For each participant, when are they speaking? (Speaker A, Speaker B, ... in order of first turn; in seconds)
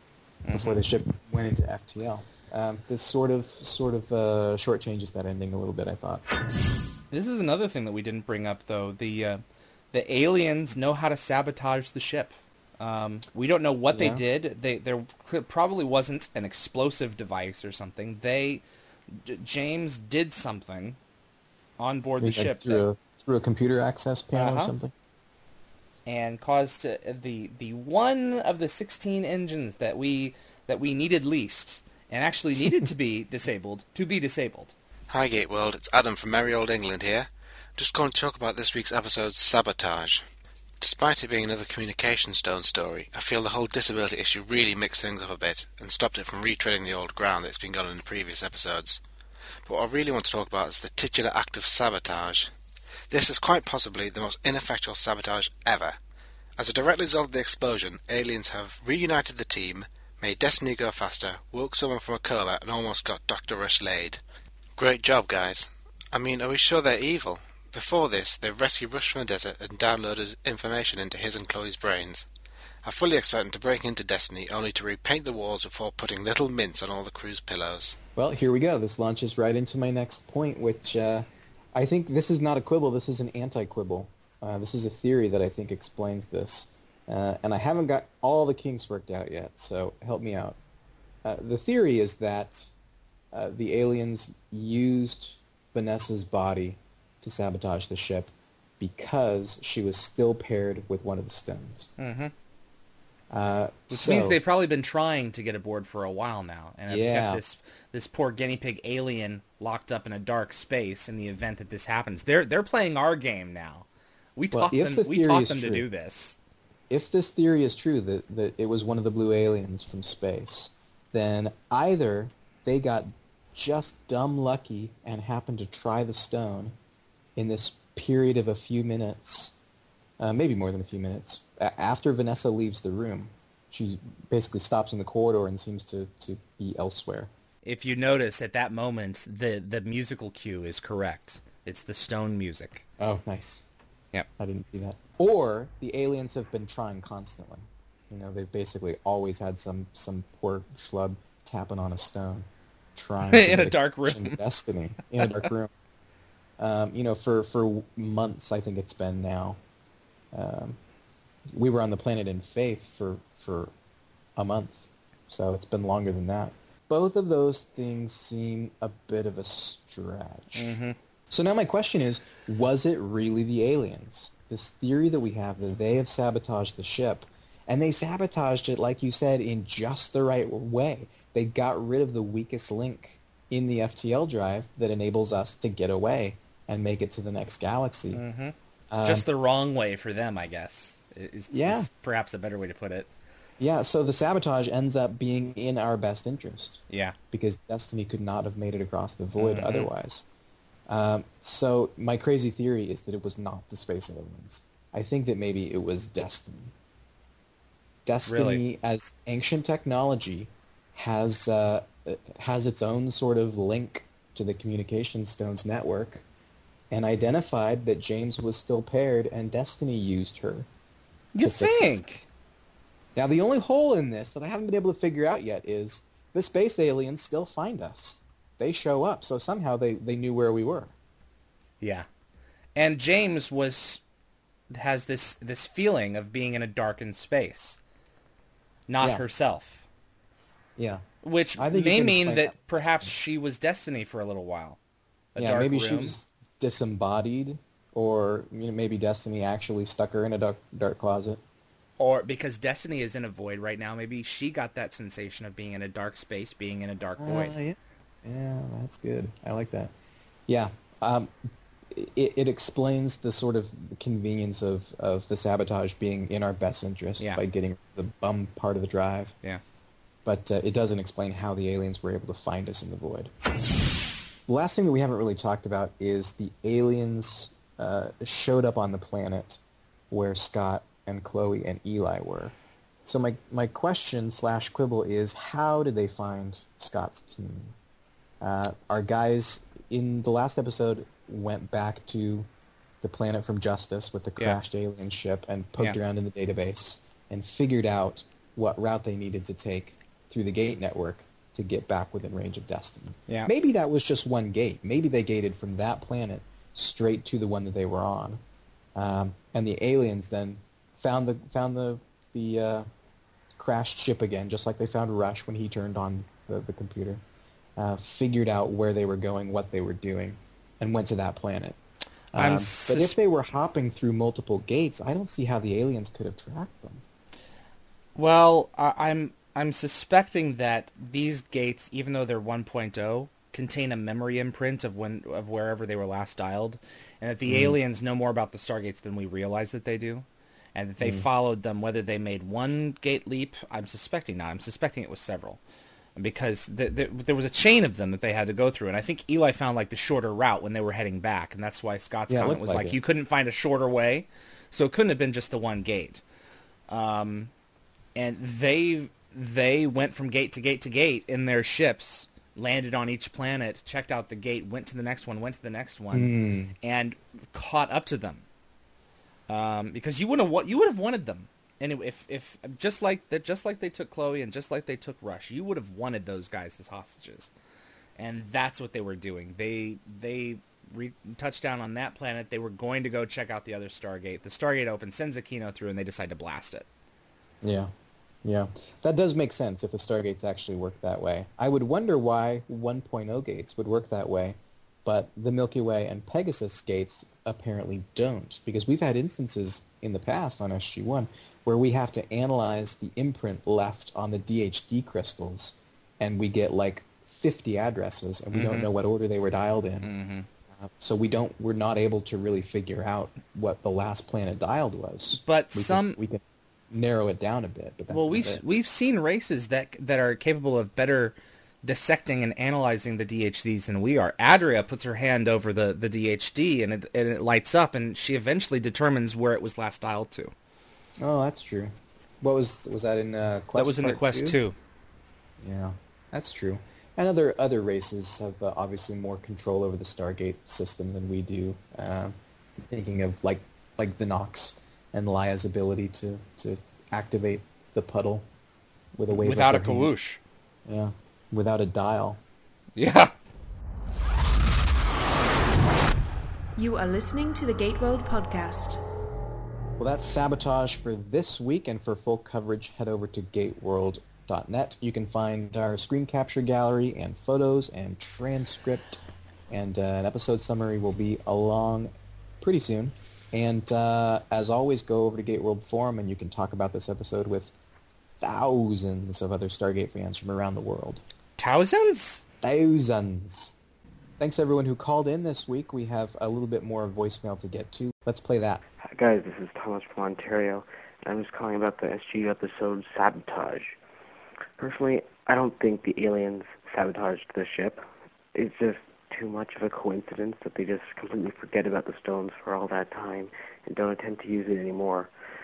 Speaker A: 0.5-0.8, 7.1-9.4, 9.9-21.0, 21.8-22.9, 24.4-24.7, 26.1-34.7, 102.0-102.3, 103.9-116.4, 137.6-142.8, 153.3-154.4, 170.6-171.0, 188.1-193.1, 196.9-197.2, 199.4-199.9, 208.3-208.6, 221.3-222.3, 231.8-232.1, 232.8-234.0, 234.7-237.8, 238.9-239.9, 241.2-244.8, 245.3-246.2, 252.0-257.6, 322.4-323.2, 328.2-345.6, 346.2-356.2, 356.9-357.5, 358.2-368.4, 369.5-377.5, 378.2-386.9, 408.5-408.9, 410.0-410.5, 415.3-416.2, 418.1-430.5, 433.8-434.8, 449.3-450.4, 453.0-453.3, 481.6-482.4
Speaker B: 0.5-6.3, 13.9-14.2, 22.2-24.9, 78.2-90.6, 91.2-92.7, 93.3-101.9, 103.3-104.4, 106.9-107.4, 114.5-115.8, 116.9-126.7, 127.4-129.5, 130.2-137.3, 143.0-143.6, 144.4-155.7, 156.6-159.6, 160.3-160.8, 161.5-163.7, 164.4-170.8, 171.3-188.2, 188.9-189.2, 191.5-191.9, 193.6-200.3, 200.9-206.7, 208.1-216.2, 216.9-220.7, 221.4-222.0, 223.2-230.9, 239.0-239.2, 240.8-241.0, 241.6-243.2, 245.4-251.4, 257.2-259.9, 260.5-261.4, 261.9-269.3, 270.2-273.3, 274.5-287.8, 288.4-292.5, 293.0-308.4, 308.9-312.9, 313.6-317.2, 317.8-321.8, 322.3-327.0, 337.5-337.8, 341.0-341.3, 352.3-353.0, 366.1-366.8, 387.6-387.9, 388.4-410.1, 410.8-418.6, 431.2-434.6, 435.6-448.5, 449.1-450.1, 450.9-452.4, 460.0-477.7, 478.4-481.2, 482.6-483.7, 484.4-488.8
Speaker C: 35.1-40.2, 40.8-49.0, 49.6-52.5, 53.1-56.0, 56.6-64.2, 64.8-72.3, 72.8-78.0
Speaker D: 456.8-459.0
Speaker E: 489.0-494.0, 494.8-505.3